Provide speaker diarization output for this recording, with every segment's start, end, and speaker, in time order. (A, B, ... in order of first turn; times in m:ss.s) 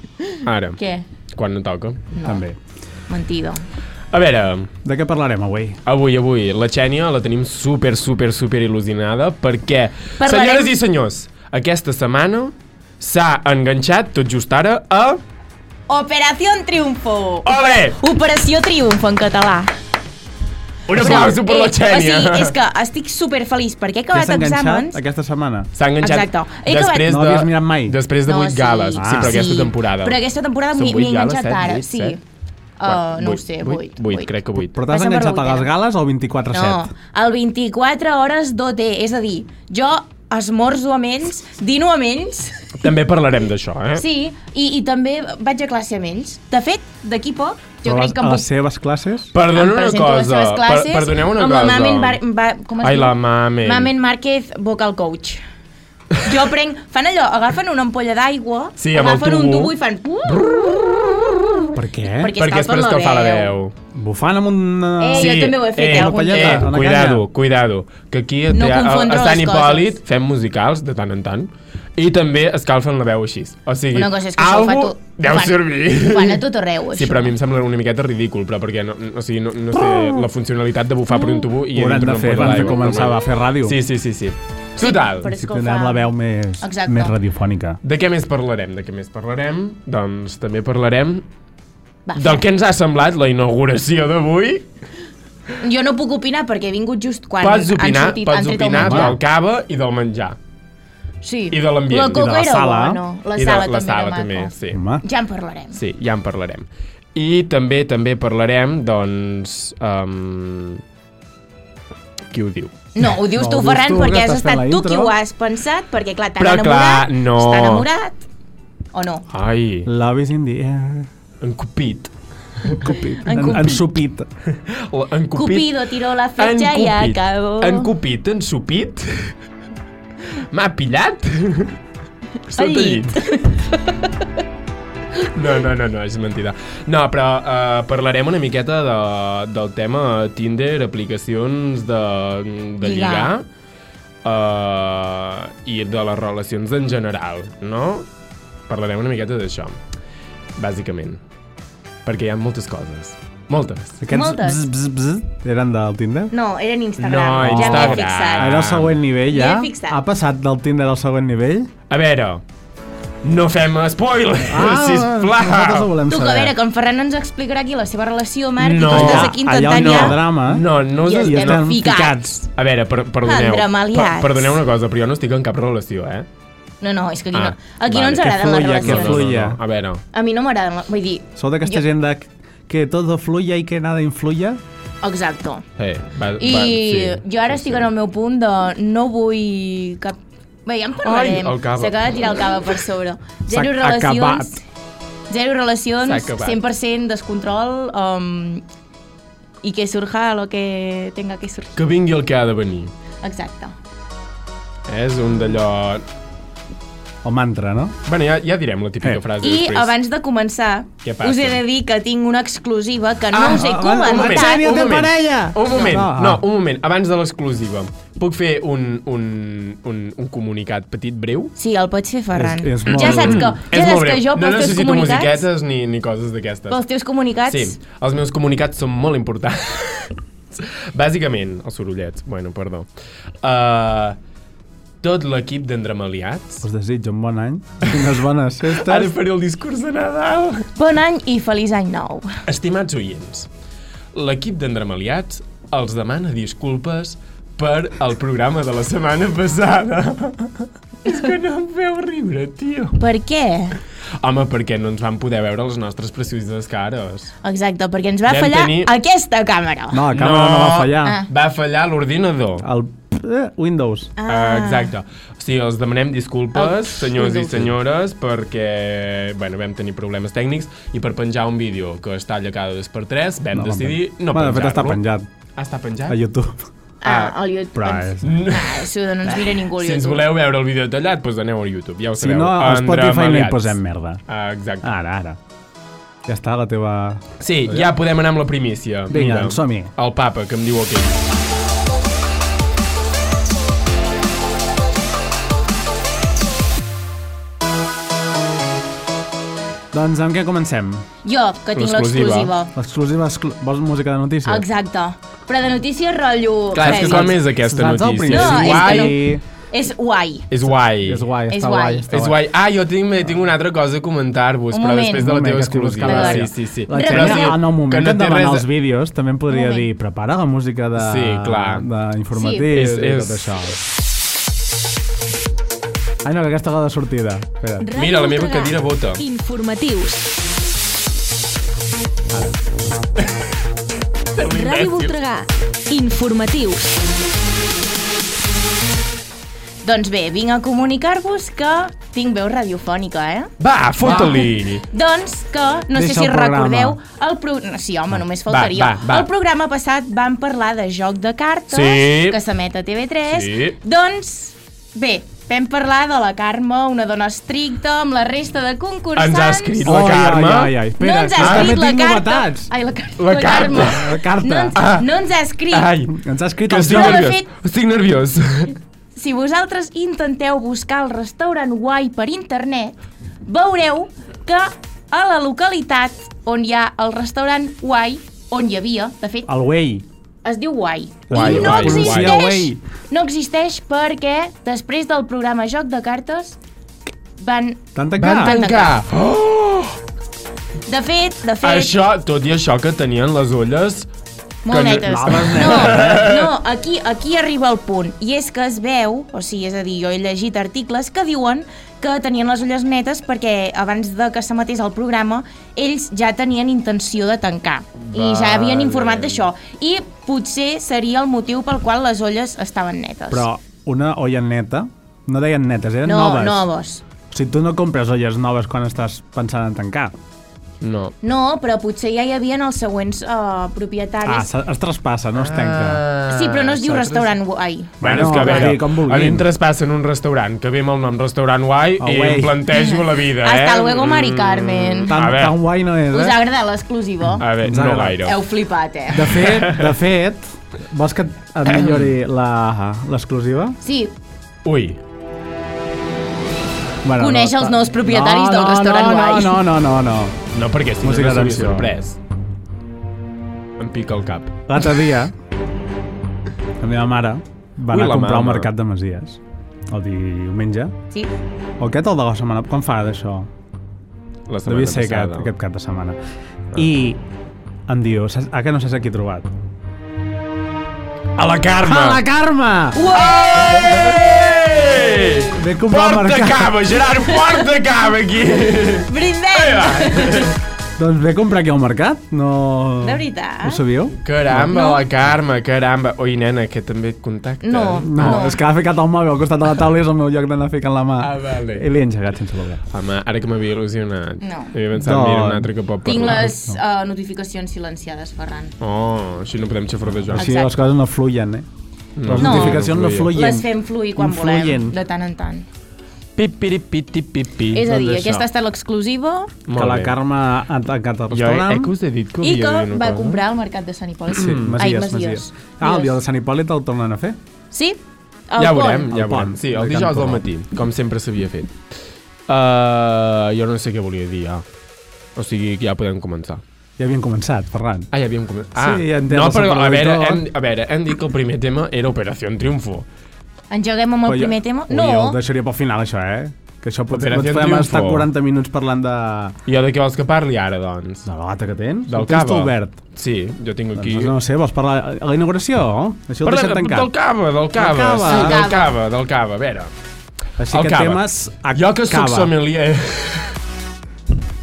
0:00.2-0:01.0 A
0:00.4-0:00.8 B
0:01.3-0:02.1 B
0:02.1-0:02.4 A
0:02.2-0:02.6 C
0:03.1-0:03.6 A
0:04.1-0:04.7 B
0:04.8-0:05.8 C
0:05.9-0:15.2 B
0:10.2-0:10.8 A
0:15.9-0:19.7 A
0:17.5-0:18.0 B
0:20.9-0:22.6 B
0:21.0-0:25.0 A
0:24.1-0:25.7 C
0:25.8-0:30.2 B
0:26.0-0:27.1 A
0:27.0-0:28.0 C
0:28.3-0:32.2 A
0:29.0-0:29.5 C
0:30.7-0:32.2 B
0:32.8-0:34.3 A
0:32.8-0:34.8 B
0:34.6-0:36.9 C
0:34.9-0:35.7 A
0:36.5-0:42.9 A
0:42.8-0:44.0 B
0:44.0-0:48.5 A
0:47.8-0:49.3 C
0:49.3-0:52.2 B
0:49.5-0:55.4 A
0:52.8-0:53.9 B
0:56.2-1:03.5 A
0:58.8-1:01.3 B
1:01.8-1:02.4 C
1:02.4-1:03.7 B
1:03.9-1:07.2 C
1:05.0-1:06.7 A
1:05.1-1:16.4 B
1:08.5-1:10.0 A
1:13.9-1:17.3 A
1:16.9-1:25.3 B
1:21.7-1:23.8 C
1:24.8-1:26.1 A
1:25.4-1:27.8 C
1:26.6-1:27.2 A
1:27.8-1:31.2 B
1:32.1-1:32.4 A
1:32.2-1:34.7 B
1:35.6-1:39.2 A
1:37.4-1:40.4 B
1:38.8-1:39.2 C
1:41.2-1:45.8 A
1:41.5-1:42.4 B
1:42.1-1:43.0 C
1:43.4-1:44.8 B
1:44.7-1:45.0 C
1:45.7-1:50.8 B
1:52.3-1:52.7 B
1:53.0-1:58.2 A
1:53.3-1:55.2 C
1:56.4-1:57.9 B
1:58.9-1:59.2 A
1:59.3-1:59.9 B
1:59.8-2:01.1 C
2:01.4-2:02.1 B
2:02.7-2:04.3 C
2:03.2-2:03.8 A
2:03.4-2:03.9 B
2:04.5-2:09.4 B
2:05.4-2:07.9 A
2:10.5-2:11.7 B
2:12.5-2:13.2 B
2:12.6-2:13.9 A
2:15.3-2:23.5 B
2:22.8-2:23.3 A
2:24.2-2:28.1 B
2:28.7-2:29.8 B
2:30.6-2:31.2 B
2:32.0-2:34.0 B
2:34.0-2:36.3 C
2:34.1-2:34.7 A
2:36.3-2:38.5 A
2:37.0-2:39.0 B
2:37.4-2:41.7 C
2:39.3-2:40.0 A
2:41.9-2:42.4 B
2:43.2-2:45.9 B
2:44.5-2:46.6 C
2:46.1-2:50.2 A
2:48.6-2:51.8 B
2:48.9-2:52.4 C
2:51.0-2:52.4 A
2:52.6-2:56.3 B
2:53.2-2:54.6 A
2:56.8-2:59.3 A
2:57.3-3:00.0 B
2:58.2-2:59.6 C
3:00.1-3:01.8 A
3:01.4-3:04.6 C
3:05.0-3:05.6 A
3:05.8-3:07.9 B
3:06.4-3:14.6 A
3:11.0-3:12.5 B
3:13.5-3:14.6 C
3:15.3-3:18.6 A
3:16.0-3:16.6 B
3:19.6-3:21.8 A
3:21.8-3:22.9 B
3:23.2-3:23.8 A
3:24.9-3:26.0 B
3:27.2-3:28.0 C
3:28.0-3:29.9 B
3:29.4-3:34.6 A
3:31.0-3:31.6 B
3:33.3-3:41.5 B
3:33.5-3:36.4 C
3:41.6-3:45.4 A
3:42.4-3:43.5 C
3:42.9-3:46.8 B
3:46.7-3:47.8 A
3:47.5-3:52.9 B
3:53.4-3:54.2 B
3:55.0-3:56.6 B
3:56.6-3:59.1 C
3:58.7-4:00.7 B
4:00.8-4:02.3 A
4:02.5-4:03.5 B
4:04.1-4:13.0 B
4:13.0-4:13.8 A
4:14.2-4:17.3 B
4:17.4-4:20.0 A
4:18.3-4:18.9 B
4:19.9-4:21.2 C
4:20.1-4:22.7 B
4:22.6-4:24.1 C
4:24.2-4:24.9 A
4:24.3-4:35.0 B
4:26.6-4:27.7 A
4:33.5-4:35.3 C
4:35.6-4:36.2 B
4:36.1-4:36.7 C
4:37.0-4:40.3 A
4:37.0-4:37.4 B
4:37.8-4:38.4 C
4:38.2-4:43.8 B
4:42.2-4:44.2 C
4:44.3-4:44.9 B
4:44.8-4:45.4 C
4:46.3-4:47.9 C
4:47.4-4:51.1 B
4:49.1-4:49.9 C
4:59.9-5:01.0 C
5:01.2-5:02.7 A
5:01.8-5:02.5 B
5:02.8-5:04.7 C
5:04.4-5:07.4 A
5:06.8-5:09.2 B
5:06.8-5:09.4 C
5:08.3-5:09.2 A
5:09.7-5:10.5 A
5:10.5-5:11.3 B
5:10.7-5:12.4 C
5:11.5-5:12.0 A
5:12.1-5:18.7 B
5:14.7-5:15.4 A
5:15.2-5:23.8 C
5:16.0-5:17.6 A
5:19.5-5:19.9 A
5:21.0-5:21.9 B
5:22.4-5:22.7 A
5:22.7-5:23.5 B
5:26.2-5:27.9 C
5:27.8-5:30.3 A
5:28.0-5:29.2 B
5:32.3-5:33.0 C
5:34.4-5:35.2 B
5:34.4-5:37.0 A
5:39.8-5:43.5 A
5:43.6-5:44.9 B
5:44.0-6:00.0 A
5:44.0-5:44.4 C
5:45.9-5:47.0 C
5:48.5-5:49.3 B
5:51.7-5:52.4 B
5:53.3-5:53.8 B
5:59.2-6:00.8 B
5:59.8-6:02.7 C
6:01.0-6:05.9 A
6:01.4-6:01.8 B
6:03.2-6:04.1 B
6:03.6-6:04.8 C
6:04.8-6:05.1 B
6:05.7-6:06.1 B
6:06.1-6:07.3 C
6:06.7-6:08.8 B
6:06.8-6:07.5 A
6:09.2-6:19.5 A
6:19.5-6:20.0 C
6:20.4-6:26.6 A
6:21.3-6:22.8 C
6:21.3-6:22.4 B
6:27.4-6:27.8 A
6:28.0-6:28.5 C
6:28.2-6:30.0 B
6:28.4-6:28.9 A
6:30.9-6:31.9 A
6:31.6-6:34.1 B
6:34.6-6:53.5 A
6:34.7-6:36.5 B
6:35.0-6:36.3 C
6:48.1-6:49.5 B
6:53.3-6:56.7 C
6:56.0-6:57.0 A
6:57.3-7:00.2 C
7:00.8-7:01.2 B
7:01.2-7:04.5 A
7:04.2-7:06.0 C
7:05.4-7:07.4 B
7:06.3-7:08.7 A
7:08.0-7:09.5 C
7:08.0-7:15.6 B
7:12.0-7:12.6 C
7:12.7-7:15.1 A
7:15.1-7:16.4 C
7:16.1-7:17.4 A
7:17.4-7:18.4 B
7:17.6-7:18.3 C
7:18.2-7:19.4 A
7:19.1-7:23.8 C
7:19.4-7:19.9 B
7:21.7-7:22.1 B
7:23.8-7:24.1 A
7:24.6-7:25.0 B
7:27.0-7:30.4 C
7:27.2-7:29.6 A
7:30.5-7:32.2 B
7:31.0-7:31.9 C
7:33.8-7:34.6 B
7:34.7-7:35.3 C
7:36.8-7:41.0 C
7:37.9-7:38.7 B
7:41.8-7:43.5 C
7:44.5-7:45.5 B
7:44.7-7:46.2 C
7:46.7-7:47.2 C
7:47.9-7:49.5 C
7:51.4-7:52.2 B
7:51.5-7:53.1 C
7:53.0-7:55.5 A
7:53.1-8:00.6 B
7:55.5-7:56.8 C
7:59.1-8:00.5 A
8:01.0-8:04.7 C
8:03.0-8:03.8 A
8:04.2-8:08.5 B
8:04.7-8:05.0 A
8:07.6-8:08.6 A
8:08.1-8:12.8 C
8:11.2-8:11.9 B
8:12.9-8:16.5 B
8:14.4-8:14.7 A
8:14.9-8:15.7 C
8:16.0-8:18.7 A
8:16.5-8:16.8 C
8:18.8-8:20.5 B
8:20.3-8:21.7 C
8:20.4-8:20.7 A
8:22.2-8:23.3 B
8:22.2-8:25.0 C
8:22.4-8:22.8 A
8:23.3-8:25.7 A
8:26.4-8:28.4 B
8:27.7-8:29.5 A
8:27.8-8:28.4 C
8:29.7-8:30.2 B
8:29.7-8:31.9 C
8:31.3-8:33.4 B
8:32.4-8:36.2 A
8:34.4-8:34.8 B
8:34.4-8:37.4 C
8:37.7-8:38.0 A
8:38.5-8:39.1 A
8:38.6-8:41.8 B
8:39.1-8:40.5 C
8:42.5-8:44.6 B
8:45.4-8:46.6 B
8:47.0-8:48.1 C
8:48.1-8:53.1 B
8:48.8-8:50.4 C
8:53.7-8:55.4 A
8:54.3-8:59.6 C
8:57.1-8:58.3 B
8:59.7-9:01.3 B
9:01.3-9:03.0 C
9:02.1-9:04.4 B
9:04.0-9:07.1 C
9:06.4-9:09.9 B
9:07.8-9:08.6 C
9:08.3-9:08.9 A
9:10.6-9:12.6 C
9:10.7-9:13.6 B